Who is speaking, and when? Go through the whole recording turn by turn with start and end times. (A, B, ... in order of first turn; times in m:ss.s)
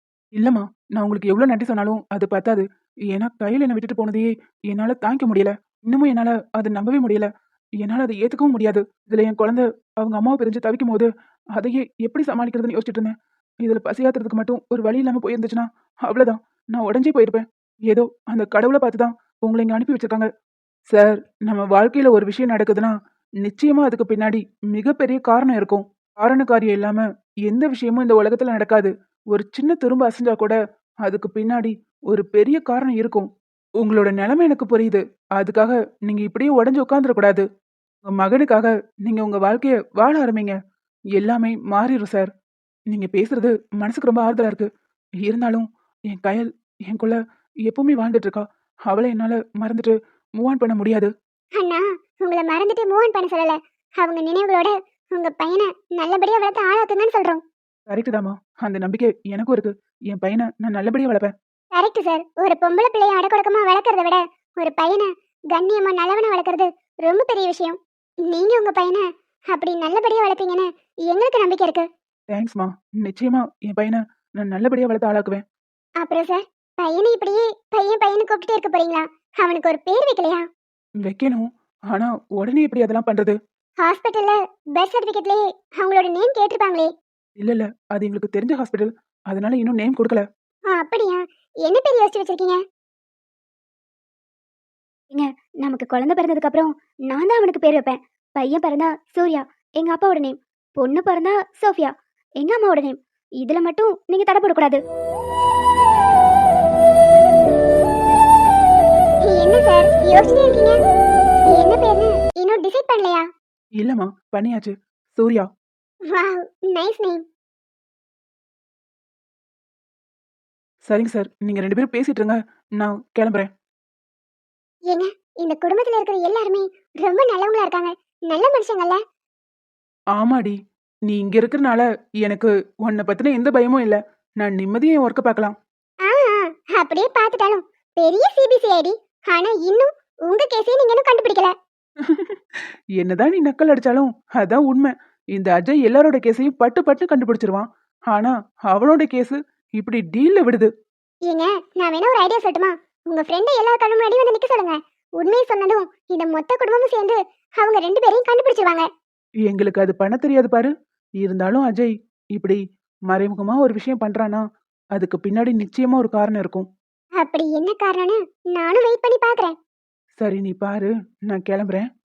0:00.4-0:07.3 A
0:07.8-0:20.3 A
0:20.9-0:33.3 A
0:33.8-0:37.4 A
0:38.0-0:40.6 A
0:41.1-0:42.3 A
0:42.9-0:44.7 A
0:45.2-0:51.1 A
0:51.6-0:57.4 B
0:57.9-1:01.3 A
1:01.7-1:07.8 B
1:08.3-1:11.8 B
1:12.3-1:15.4 A
1:16.0-1:20.5 B
1:21.0-1:23.4 A
1:23.8-1:26.9 B
1:27.4-1:30.2 A
1:30.7-1:32.6 B
1:35.1-1:44.8 C
1:49.2-1:50.8 B
1:51.5-1:53.3 B
1:53.8-1:55.5 A
1:56.1-1:57.2 B
2:00.8-2:03.5 A
2:04.9-2:09.0 B
2:10.2-2:10.5 A
2:11.1-2:15.5 A
2:16.0-2:21.5 B
2:22.0-2:30.7 A
2:31.3-2:38.9 B
2:39.4-2:46.7 A
2:47.2-2:49.5 B
2:50.2-2:51.9 A